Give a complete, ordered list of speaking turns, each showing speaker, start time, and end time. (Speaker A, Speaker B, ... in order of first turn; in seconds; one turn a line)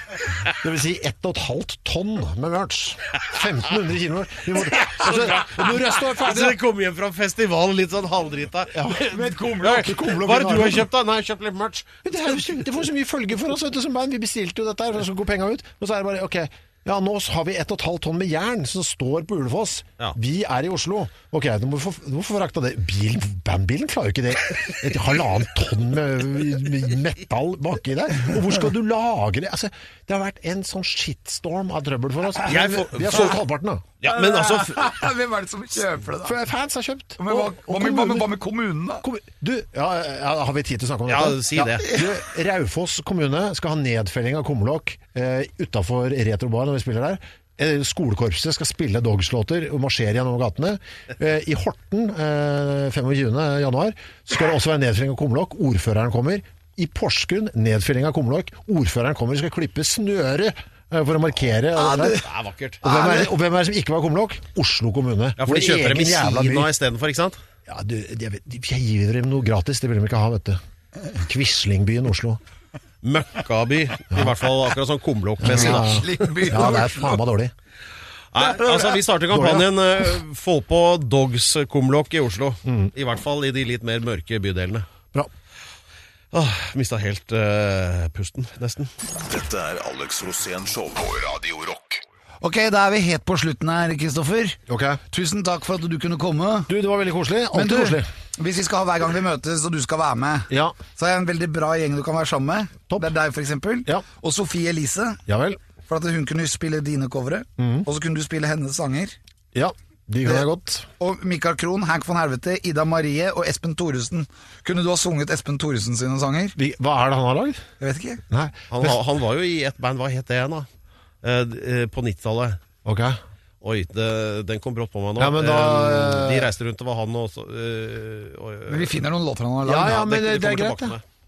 Speaker A: 0.5-6.6
Speaker B: 4.8-12.5
Speaker A: 8.8-10.9
Speaker C: 9.1-9.9
Speaker A: 12.0-33.9
Speaker B: 32.5-33.4
Speaker B: 34.0-35.0
Speaker C: 34.0-36.4
Speaker A: 36.2-38.4
Speaker C: 37.2-39.0
Speaker A: 39.0-62.2
Speaker B: 41.1-41.9
Speaker C: 61.8-62.3
Speaker B: 62.2-62.8
Speaker C: 62.8-63.3
Speaker A: 62.8-66.7
Speaker B: 65.4-67.4
Speaker A: 67.7-70.6
Speaker A: 71.1-72.4
Speaker B: 73.0-76.3
Speaker A: 75.4-77.5
Speaker C: 75.5-77.2
Speaker B: 78.3-84.9
Speaker C: 78.6-79.0
Speaker A: 79.3-79.7
Speaker A: 82.7-82.9
Speaker B: 86.3-88.9
Speaker D: 89.0-92.0
Speaker C: 92.4-96.7
Speaker A: 94.7-95.0
Speaker A: 96.7-98.1
Speaker C: 97.5-105.2
Speaker A: 100.5-100.8
Speaker A: 102.9-103.2
Speaker A: 105.3-105.6
Speaker C: 105.9-109.2
Speaker A: 107.6-107.9
Speaker A: 109.5-110.9
Speaker C: 111.0-116.6
Speaker A: 116.6-117.7
Speaker C: 117.8-118.2
Speaker A: 118.3-119.0
Speaker B: 118.7-120.7
Speaker B: 121.2-122.6
Speaker A: 122.8-123.2
Speaker B: 123.6-129.0
Speaker A: 125.2-126.5
Speaker C: 128.7-130.0
Speaker A: 129.7-131.0
Speaker B: 129.8-131.0